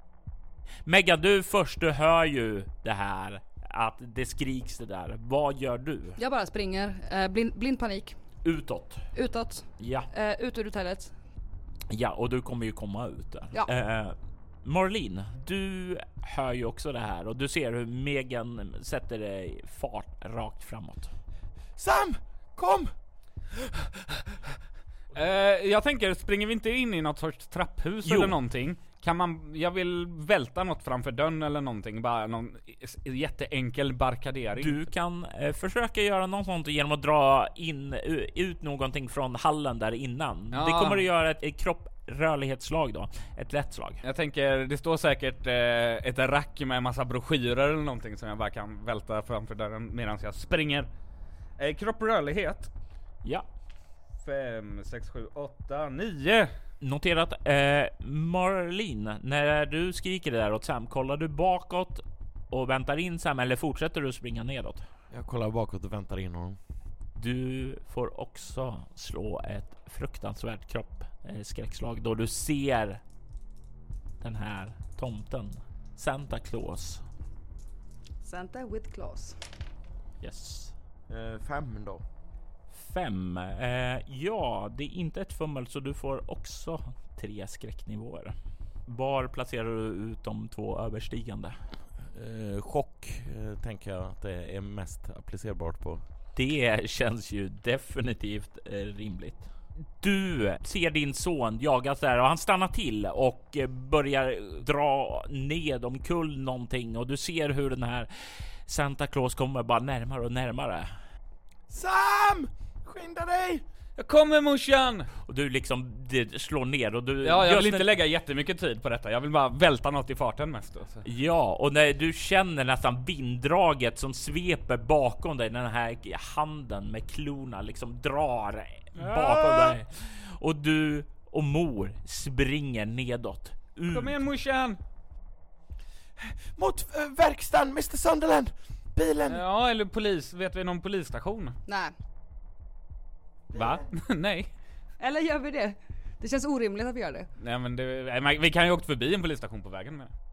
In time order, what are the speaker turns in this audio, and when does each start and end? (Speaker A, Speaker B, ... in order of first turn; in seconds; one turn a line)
Speaker A: 0.8-6.2
Speaker B: 6.2-8.2
Speaker A: 8.4-9.1
Speaker B: 9.1-11.1
Speaker A: 9.8-10.1
Speaker A: 11.9-21.1
Speaker C: 21.8-22.9
Speaker C: 23.5-24.4
Speaker D: 25.1-34.8
Speaker A: 28.0-28.4
Speaker A: 34.6-44.0
Speaker D: 40.5-41.0
Speaker D: 44.0-50.9
Speaker D: 51.6-52.7
Speaker D: 54.2-56.5
Speaker A: 56.8-64.9
Speaker C: 65.1-66.6
Speaker A: 67.2-73.0
Speaker A: 74.2-77.0
Speaker B: 78.2-79.4
Speaker A: 80.2-80.7
Speaker C: 81.1-82.0
Speaker A: 82.7-88.3
Speaker A: 88.9-91.6
Speaker C: 92.1-96.0
Speaker A: 96.3-99.5
Speaker A: 100.0-110.9
Speaker C: 111.7-113.6
Speaker D: 114.0-115.1
Speaker A: 115.2-117.9
Speaker D: 117.2-121.0
Speaker A: 121.0-134.2
Speaker D: 129.0-129.8
Speaker D: 133.9-134.8
Speaker C: 136.2-139.4
Speaker D: 139.3-141.6
Speaker B: 141.7-141.9
Speaker D: 143.5-144.5
Speaker B: 145.0-147.3
Speaker D: 147.4-150.1